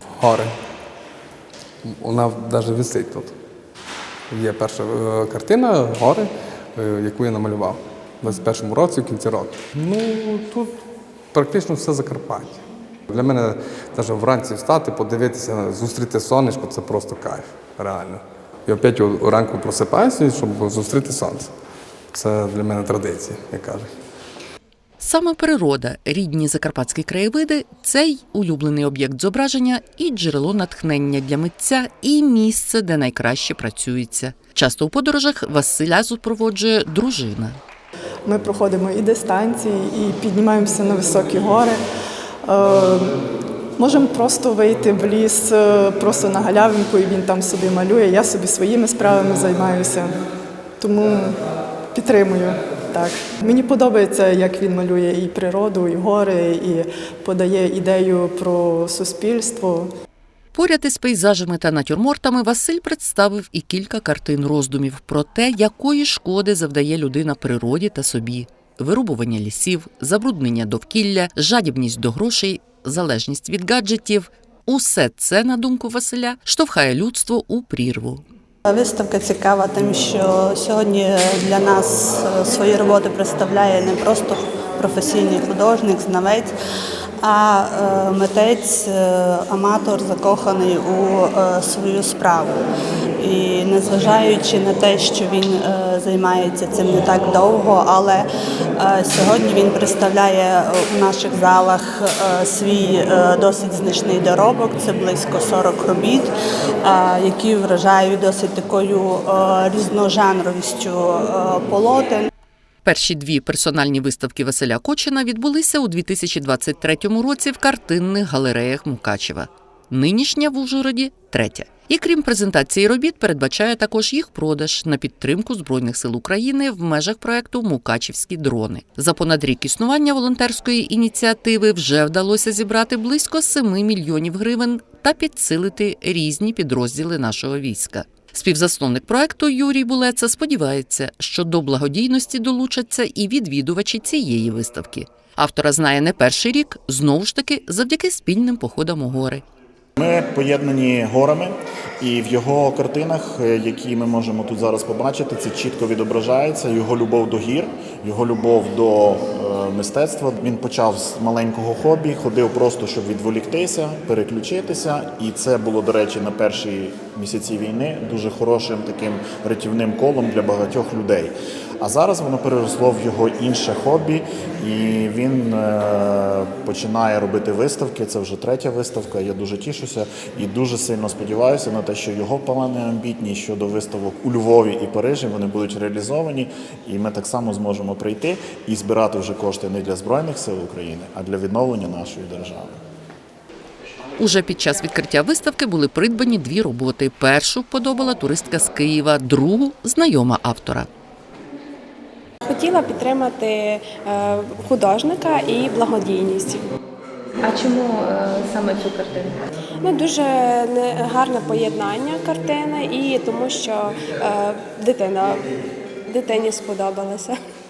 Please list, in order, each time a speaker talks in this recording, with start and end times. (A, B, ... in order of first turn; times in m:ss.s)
0:00.2-0:00.5 A
0:01.8-0:03.3 A
0:04.3-0:10.7 A
0:11.3-0:21.5 A
0:22.1-0:23.9 A
0:25.0-0:37.6 B
0:38.2-0:41.8 C
0:42.4-0:43.2 C
0:43.8-0:50.1 C
0:50.8-0:51.4 C
0:51.9-0:59.9 C
1:00.5-1:18.2 B
1:18.7-1:26.5 D
1:27.2-1:32.6 D
1:33.2-1:38.3 D
1:38.8-1:46.3 D
1:46.8-1:52.3 D
1:52.8-2:29.4 B
2:30.0-3:12.8 E
3:14.2-3:20.9 B
3:22.4-3:26.7 F
3:27.4-3:29.4 G
3:29.8-3:35.4 F
3:36.1-3:37.4 F